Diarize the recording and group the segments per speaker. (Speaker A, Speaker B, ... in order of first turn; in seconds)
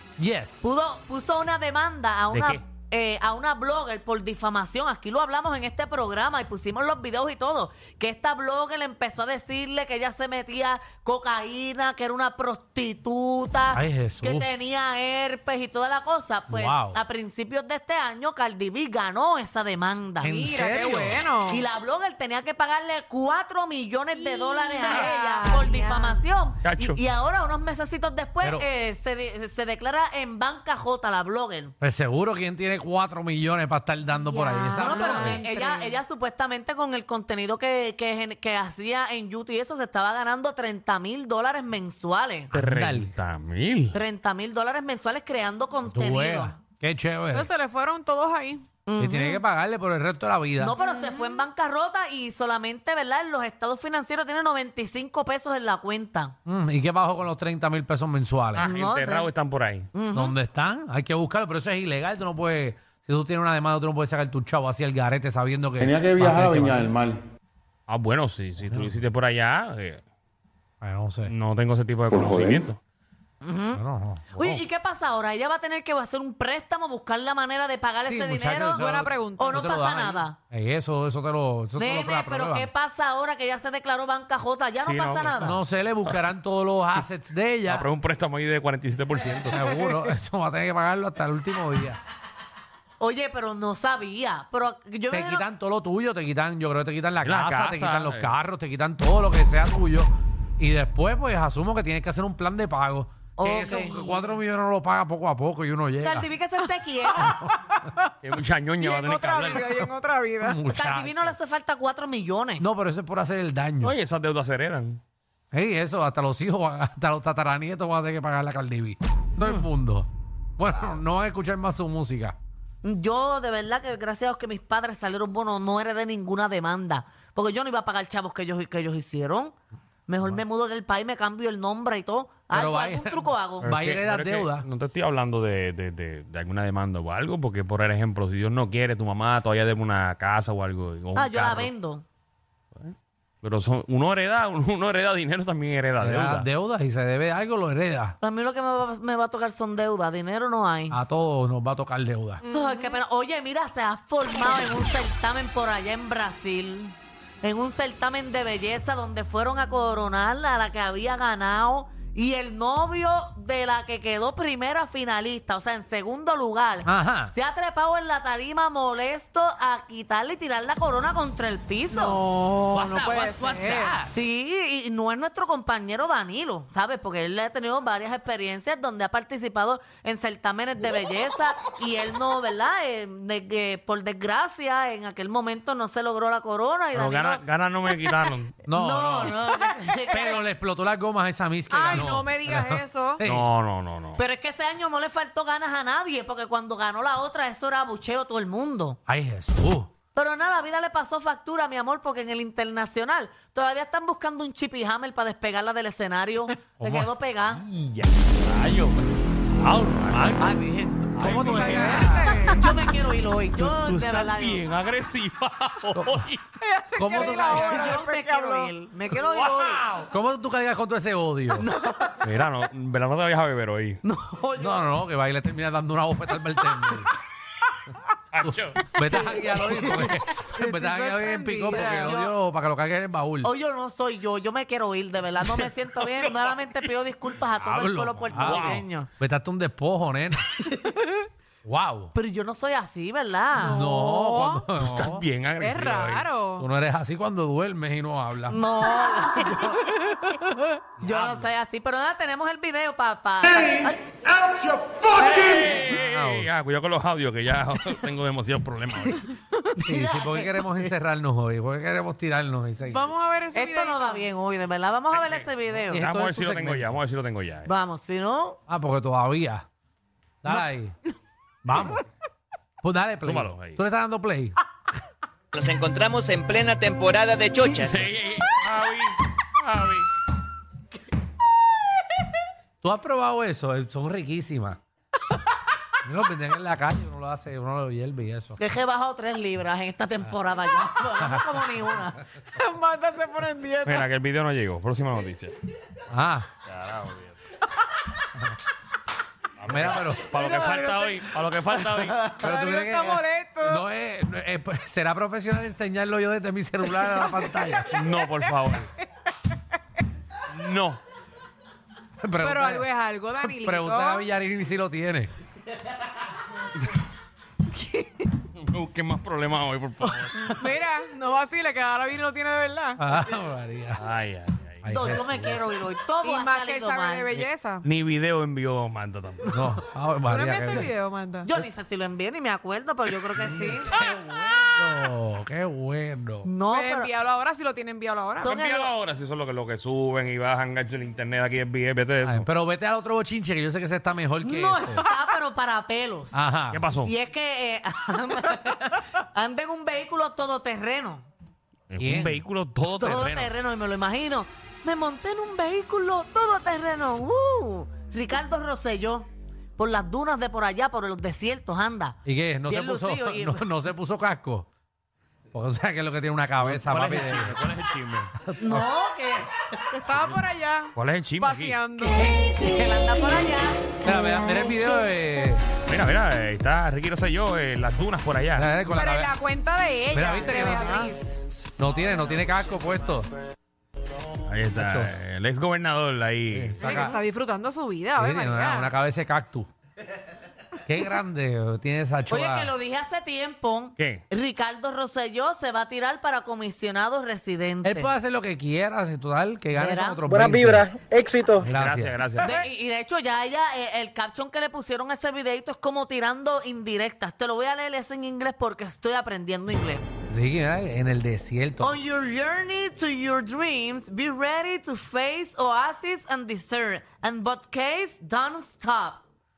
Speaker A: 0.2-0.7, 13.7-14.5, 16.5-17.0, 20.2-21.2, 31.8-35.4, 42.5-43.1, 45.9-47.5, 49.0-50.8, 56.5-58.8, 60.1-67.0, 68.6-68.9, 70.8-71.3, 73.7-74.6, 78.0-82.7, 85.4-87.9, 89.5-92.0, 95.1-106.3, 107.2-107.8, 110.4-111.3, 112.6-114.0, 115.5-122.4, 132.5-134.7, 146.0-148.2, 150.9-152.4, 166.8-167.3, 172.7-174.1, 188.7-189.4, 190.0-193.5, 199.1-199.9, 206.8-207.1, 211.2-212.4, 215.9-216.3, 217.0-218.0, 220.1-221.7, 224.6-227.1, 228.4-233.5, 237.6-240.6, 241.6-242.1, 243.7-245.2, 246.6-248.6, 251.0-251.5, 255.6-256.5, 259.8-263.1, 265.9-267.0, 268.7-269.7, 270.4-271.0, 271.6-272.0, 272.8-274.6, 282.8-284.8, 286.0-288.6, 291.2-291.5, 296.1-296.5, 299.7-300.4, 302.4-308.0, 312.2-312.9, 313.4-315.3, 323.0-324.0, 324.8-325.6, 329.5-330.9, 333.9-336.5, 342.2-345.0, 346.3-346.9, 352.0-352.4, 362.2-364.7, 365.5-367.7, 368.4-368.9, 374.0-375.6, 378.5-379.4, 380.1-381.0, 381.8-383.3, 384.7-385.1, 386.5-387.2, 388.1-389.7, 390.9-392.7, 397.8-401.0, 401.5-402.2, 410.3-412.0
Speaker B: 0.6-20.3, 21.5-31.7, 34.7-42.5, 43.9-46.5, 48.9-49.4, 50.6-56.4, 58.6-59.3, 59.9-60.4, 73.4-73.8, 74.4-78.8, 79.4-80.4, 81.8-85.6, 93.0-95.5, 103.4-104.3, 106.0-107.4, 110.7-112.7, 122.8-129.5, 130.1-133.7, 141.2-142.0, 148.2-151.0, 152.5-172.2, 174.1-187.4, 188.7-190.4, 194.2-199.0, 200.1-207.6, 210.4-211.2, 212.2-214.6, 217.3-219.8, 221.5-222.3, 224.0-224.9, 229.1-230.1, 231.7-232.3, 233.4-239.1, 242.1-243.8, 248.5-249.9, 251.0-254.1, 259.8-260.8, 263.5-266.0, 267.7-268.6, 288.6-292.2, 324.9-327.5, 331.4-334.0, 336.4-337.1, 338.4-338.9, 344.4-346.4, 347.0-351.3, 352.9-363.7, 368.6-369.5, 372.0-373.9, 380.4-381.1, 386.8-387.2, 392.3-398.1, 399.8-400.3, 402.4-410.1, 411.8-419.2
Speaker C: 2.3-2.6, 26.6-27.0, 42.5-44.0, 58.5-59.9, 67.9-70.0, 71.3-72.8, 84.8-85.5, 87.7-89.6, 97.2-98.3, 108.2-109.7, 113.8-115.0, 133.6-141.7, 142.8-146.5, 186.9-188.6, 193.2-194.2, 207.6-209.0, 209.6-210.6, 211.1-212.1, 213.5-216.4, 219.2-220.1, 222.2-224.0, 228.3-228.9, 236.0-236.3, 238.4-238.8, 244.8-246.3, 255.1-259.2, 265.9-267.7, 273.2-273.8, 277.7-280.1, 293.9-295.6, 296.6-297.4, 299.6-302.2, 307.9-308.9, 310.5-311.0, 318.6-320.5, 324.0-325.2, 327.8-329.6, 338.4-342.5, 346.7-347.1, 351.9-353.5, 366.6-368.3, 370.9-371.8, 375.9-378.8, 384.4-387.0, 394.0-394.2, 401.7-402.6
Speaker D: 20.2-21.6, 24.1-26.2, 34.3-36.0, 47.3-48.7, 50.8-51.5, 78.7-79.7, 89.7-90.1, 108.8-110.6, 152.4-153.0, 171.9-174.0, 189.5-190.2, 191.7-193.2, 211.4-212.7, 216.6-218.7, 229.6-232.2, 243.6-244.7, 245.6-246.7, 250.0-250.6, 262.9-264.3, 292.5-294.1, 300.2-303.8, 307.0-309.6, 312.4-314.3, 317.7-318.3, 320.4-323.0, 326.2-327.9, 330.3-331.5, 336.7-338.6, 369.9-372.5, 374.1-374.8, 378.9-381.4, 386.8-388.9
Speaker E: 66.7-67.1, 72.3-72.6, 400.3-401.6
Speaker F: 275.5-278.1